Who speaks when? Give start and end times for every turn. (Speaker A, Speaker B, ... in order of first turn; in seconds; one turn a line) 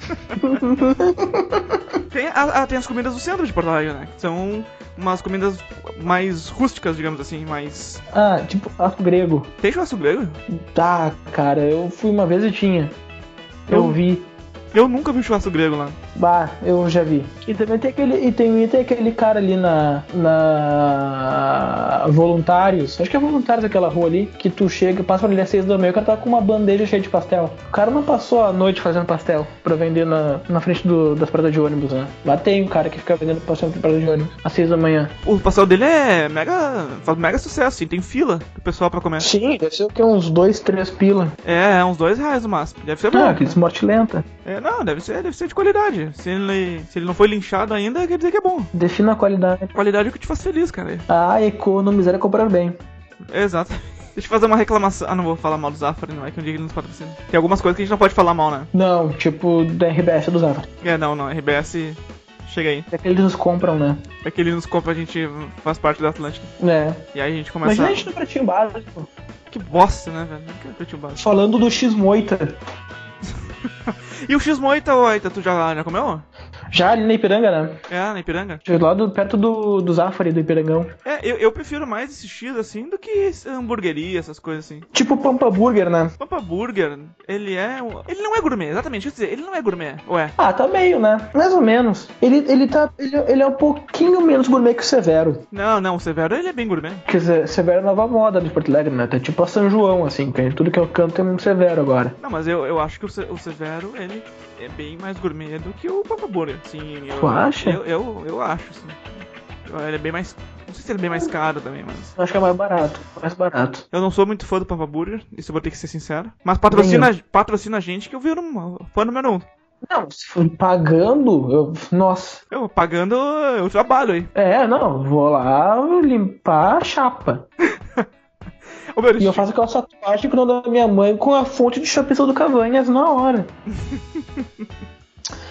Speaker A: 0.4-1.8
Speaker B: 2.1-8.0
Speaker A: 8.1-9.5
Speaker B: 9.6-10.4
Speaker A: 10.5-12.9
Speaker A: 13.7-14.3
Speaker B: 13.7-14.0
Speaker B: 14.7-16.0
Speaker A: 16.1-35.1
Speaker B: 35.2-39.3
Speaker A: 39.2-41.4
Speaker B: 41.4-43.6
Speaker A: 43.1-44.2
Speaker B: 44.4-48.7
Speaker A: 48.7-49.7
Speaker B: 49.7-51.0
Speaker A: 51.1-52.8
Speaker B: 53.3-58.7
Speaker A: 58.7-60.7
Speaker B: 60.8-62.9
Speaker A: 62.9-64.0
Speaker B: 64.2-66.5
Speaker A: 66.6-67.0
Speaker B: 67.1-68.1
Speaker A: 67.6-69.1
Speaker B: 69.5-71.2
Speaker A: 71.2-72.5
Speaker B: 73.9-76.2
Speaker A: 76.7-77.8
Speaker B: 77.9-78.6
Speaker A: 78.6-80.9
Speaker B: 81.0-84.9
Speaker A: 84.9-86.1
Speaker B: 86.2-90.4
Speaker A: 90.4-95.4
Speaker B: 95.5-97.0
Speaker A: 97.1-102.2
Speaker B: 102.2-109.0
Speaker A: 107.1-107.8
Speaker B: 109.7-112.1
Speaker A: 112.2-113.8
Speaker B: 113.9-119.4
Speaker A: 116.7-117.1
Speaker A: 119.9-122.4
Speaker B: 122.5-124.3
Speaker A: 124.3-127.5
Speaker B: 129.0-129.5
Speaker A: 129.2-133.5
Speaker B: 133.8-134.5